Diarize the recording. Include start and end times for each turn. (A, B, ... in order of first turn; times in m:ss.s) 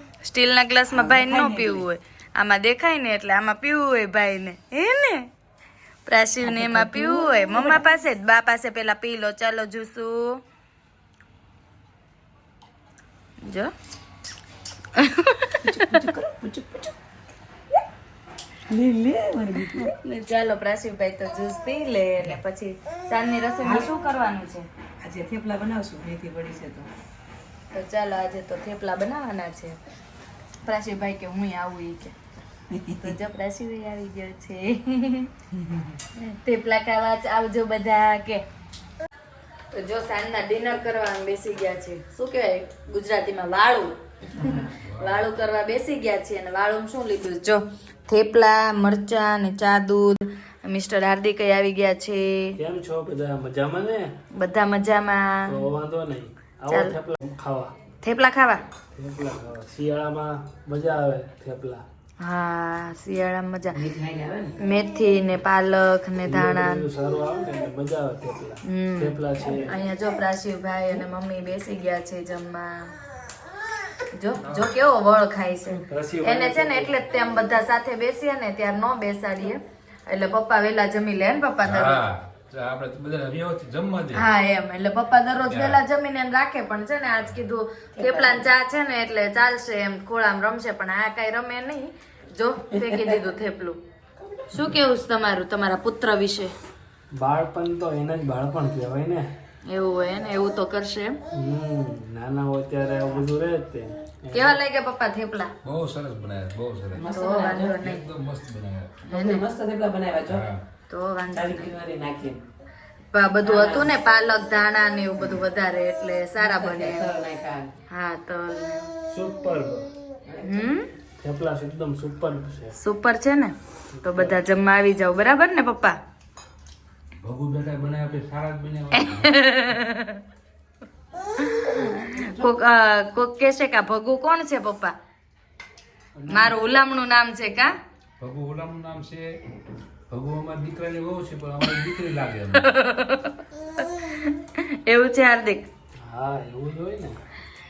0:00.2-0:05.3 A
0:00.9-0:01.9 B
0:06.1-0:10.4 A
0:06.4-0:07.8 B
0:13.4-0:13.7 A
0:15.0-0:16.0 A
0:15.6-0:17.0 B
0:18.7-0:19.9 B
0:19.8-0:24.7 A
0:23.6-0:23.9 B
0:25.0-0:26.9 B
0:27.7-0:29.8 A
0:30.6-0:32.1 A
0:32.7-0:33.2 B
0:33.0-0:35.3 A
0:35.6-0:36.0 B
0:36.2-0:38.4 A
0:39.7-0:52.6 A
0:44.8-0:45.3 C
0:52.6-0:54.1 D
0:54.4-0:55.5 A
0:55.5-0:57.7 D
0:56.7-0:57.0 A
0:58.0-0:58.6 A
0:58.9-1:01.8 D
1:02.2-1:03.8 A
1:03.7-1:04.6 B
1:04.6-1:06.9 A
1:06.3-1:09.8 D
1:08.7-1:12.9 A
1:14.1-1:22.0 A
1:15.9-1:17.0 D
1:21.6-1:24.3 C
1:24.1-1:33.8 A
1:25.5-1:25.8 C
1:28.0-1:28.5 B
1:32.9-1:33.2 B
1:34.5-1:36.5 A
1:37.2-1:39.3 D
1:39.7-1:41.2 A
1:41.3-1:44.6 D
1:44.3-1:45.5 A
1:45.6-1:47.1 C
1:46.9-1:47.8 B
1:47.1-1:48.0 A
1:47.8-1:48.9 C
1:49.1-1:50.5 B
1:49.1-1:49.5 A
1:50.3-1:50.6 C
1:50.9-1:51.7 A
1:51.3-1:52.5 B
1:53.1-1:57.1 A
1:53.4-1:54.0 B
1:56.4-1:57.7 B
1:57.9-1:58.9 A
1:59.3-1:59.8 D
2:00.3-2:00.7 B
2:00.4-2:00.9 A
2:01.2-2:02.8 D
2:02.8-2:06.0 A
2:03.9-2:04.4 D
2:07.2-2:09.4 C
2:08.9-2:10.2 A
2:11.4-2:14.9 A
2:12.2-2:12.5 B
2:16.3-2:16.6 C
2:16.3-2:17.7 A
2:18.2-2:19.3 C
2:20.1-2:22.7 C
2:22.5-2:25.7 A
2:26.0-2:27.2 D